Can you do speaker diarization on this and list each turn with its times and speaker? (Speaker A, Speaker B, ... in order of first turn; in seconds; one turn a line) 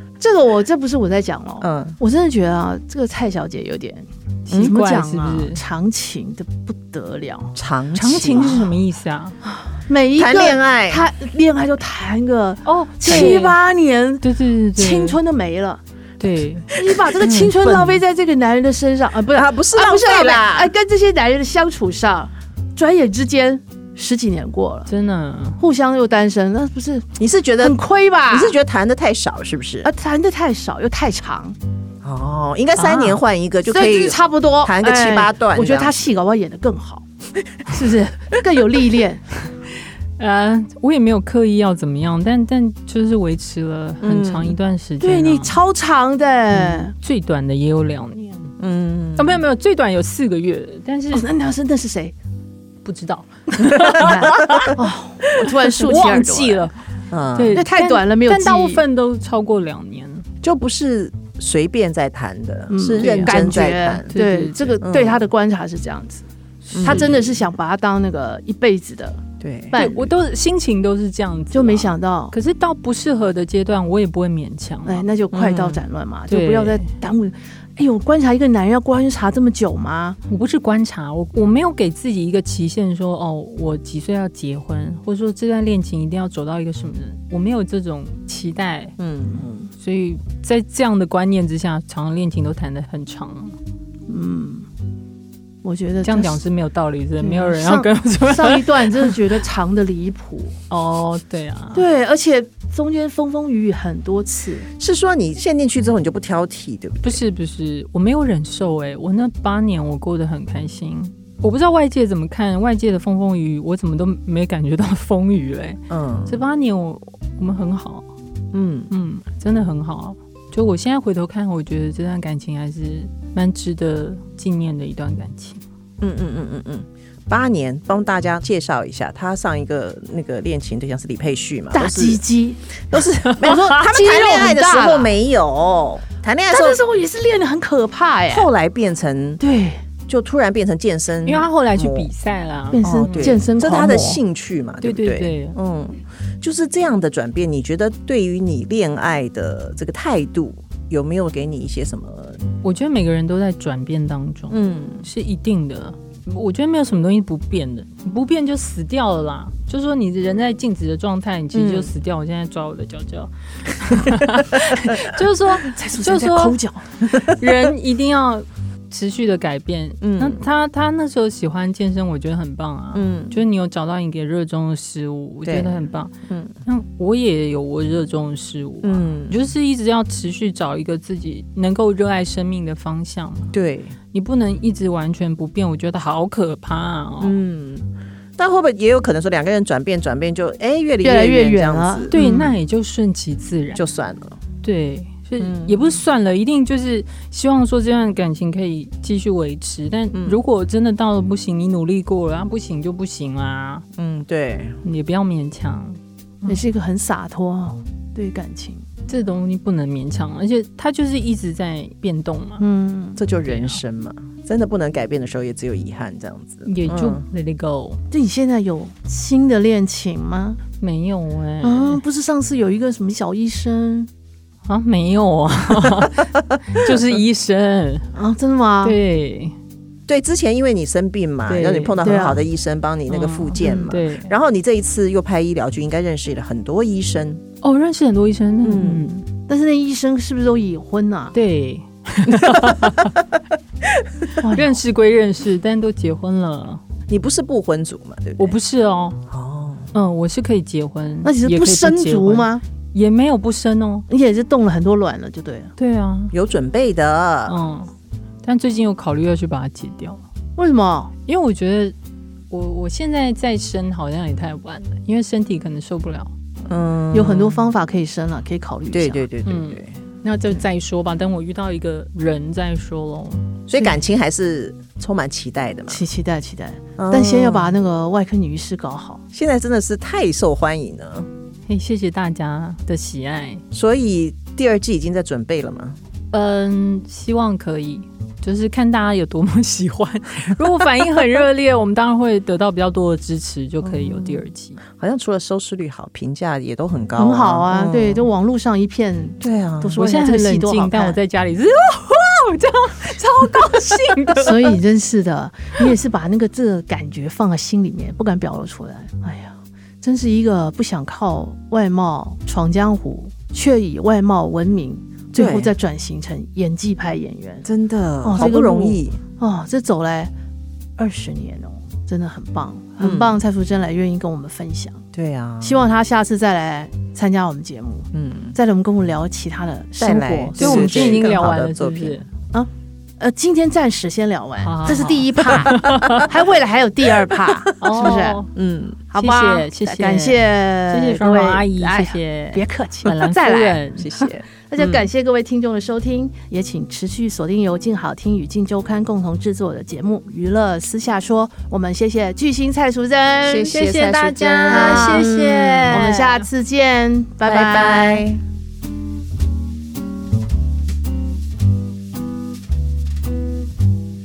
Speaker A: 0.2-7.5
Speaker B: 1.6-2.0
Speaker C: 4.5-5.6
Speaker B: 7.5-8.6
Speaker C: 8.0-9.3
Speaker A: 8.3-8.8
Speaker A: 9.5-15.8
Speaker B: 10.2-11.0
Speaker C: 12.7-13.6
Speaker B: 13.1-13.4
Speaker C: 14.2-15.2
Speaker C: 16.2-16.7
Speaker A: 16.7-24.9
Speaker B: 17.2-18.0
Speaker B: 19.3-20.7
Speaker C: 24.9-25.6
Speaker A: 25.6-28.6
Speaker B: 27.2-27.8
Speaker B: 28.3-29.9
Speaker A: 29.8-31.6
Speaker B: 32.0-36.0
Speaker C: 32.8-33.2
Speaker A: 33.7-37.0
Speaker A: 37.6-39.3
Speaker C: 40.2-45.6
Speaker B: 44.0-44.6
Speaker A: 45.0-46.9
Speaker B: 46.5-46.9
Speaker C: 47.0-48.5
Speaker B: 48.6-49.4
Speaker C: 49.2-51.2
Speaker A: 51.1-52.1
Speaker C: 52.9-54.7
Speaker A: 53.7-56.7
Speaker B: 54.0-54.7
Speaker C: 55.6-56.8
Speaker B: 57.1-57.6
Speaker C: 57.3-60.3
Speaker A: 57.5-58.8
Speaker B: 60.4-64.1
Speaker A: 62.7-66.3
Speaker C: 63.0-63.5
Speaker C: 64.1-64.8
Speaker B: 64.8-65.2
Speaker C: 66.7-67.4
Speaker B: 66.7-67.1
Speaker A: 66.8-70.1
Speaker B: 69.4-69.8
Speaker C: 69.7-75.1
Speaker A: 71.5-72.3
Speaker A: 74.8-80.2
Speaker B: 75.3-75.8
Speaker C: 76.3-76.9
Speaker C: 80.3-88.9
Speaker B: 89.0-89.4
Speaker A: 89.3-89.7
Speaker C: 89.8-93.6
Speaker A: 94.1-94.7
Speaker A: 95.6-96.4
Speaker C: 96.0-99.2
Speaker A: 97.2-100.5
Speaker C: 100.7-101.8
Speaker A: 101.7-104.7
Speaker B: 104.8-107.2
Speaker C: 107.0-118.1
Speaker B: 115.9-116.4
Speaker B: 118.5-118.9
Speaker C: 118.9-125.6
Speaker B: 126.0-132.2
Speaker A: 131.7-135.1
Speaker B: 132.9-136.8
Speaker C: 133.2-133.8
Speaker A: 136.5-138.5
Speaker B: 138.3-139.4
Speaker A: 139.4-139.8
Speaker B: 140.1-142.1
Speaker C: 141.3-143.5
Speaker A: 142.7-144.2
Speaker B: 142.8-152.4
Speaker C: 144.8-145.6
Speaker C: 152.6-176.1
Speaker B: 154.5-155.1
Speaker B: 161.5-161.9
Speaker A: 165.6-167.1
Speaker B: 170.0-170.4
Speaker B: 172.9-173.4
Speaker B: 175.4-176.5
Speaker C: 176.7-183.6
Speaker B: 178.8-179.4
Speaker B: 183.5-183.9
Speaker C: 184.1-187.4
Speaker B: 187.2-192.5
Speaker A: 191.0-192.1
Speaker C: 192.1-193.8
Speaker B: 193.8-194.4
Speaker C: 194.6-203.8
Speaker B: 195.4-195.9
Speaker B: 200.1-200.4
Speaker B: 204.0-204.8
Speaker C: 204.8-206.6
Speaker A: 206.5-208.8
Speaker C: 209.1-212.6
Speaker A: 212.6-213.2
Speaker B: 213.2-217.2
Speaker C: 213.4-213.8
Speaker C: 216.7-218.0
Speaker A: 218.1-220.6
Speaker C: 220.8-222.0
Speaker A: 221.6-224.1
Speaker C: 224.7-228.1
Speaker A: 228.2-229.0
Speaker C: 228.8-229.6
Speaker B: 230.1-237.4
Speaker C: 231.5-232.1
Speaker A: 232.0-232.4
Speaker C: 233.1-234.3
Speaker A: 233.6-234.0
Speaker C: 237.6-239.3
Speaker B: 238.6-239.1
Speaker A: 239.5-241.3
Speaker C: 241.3-243.2
Speaker C: 244.4-246.8
Speaker A: 244.4-244.8
Speaker B: 247.1-248.6
Speaker C: 248.4-249.2
Speaker B: 249.3-249.9
Speaker C: 249.9-254.1
Speaker A: 251.2-252.6
Speaker A: 254.1-255.7
Speaker C: 255.8-256.3
Speaker B: 256.3-257.6
Speaker C: 257.5-257.9
Speaker C: 258.4-260.2
Speaker A: 260.6-261.1
Speaker C: 261.3-261.9
Speaker C: 262.5-266.3
Speaker B: 266.7-267.7
Speaker A: 267.1-269.3
Speaker B: 268.9-269.9
Speaker C: 269.5-273.6
Speaker B: 273.7-276.0
Speaker A: 275.9-279.2
Speaker B: 277.0-277.8
Speaker B: 279.3-281.3
Speaker C: 281.7-283.6
Speaker B: 283.7-286.0
Speaker C: 286.3-294.8
Speaker B: 293.8-298.3
Speaker A: 297.2-301.2
Speaker B: 299.4-300.0
Speaker C: 300.0-304.8
Speaker A: 304.4-317.7
Speaker B: 315.4-315.7
Speaker B: 317.6-319.2
Speaker A: 318.2-320.3
Speaker A: 321.0-325.0
Speaker B: 323.0-323.4
Speaker B: 325.1-325.8
Speaker A: 325.6-331.3
Speaker B: 328.1-328.6
Speaker B: 330.0-332.2
Speaker C: 330.6-332.3
Speaker A: 332.5-338.4
Speaker C: 334.6-336.3
Speaker B: 337.5-339.0
Speaker C: 337.8-338.5
Speaker A: 339.1-353.7
Speaker C: 339.2-344.1
Speaker B: 344.0-345.1
Speaker B: 353.5-356.0
Speaker C: 353.6-356.4
Speaker A: 354.7-358.3
Speaker B: 357.4-358.4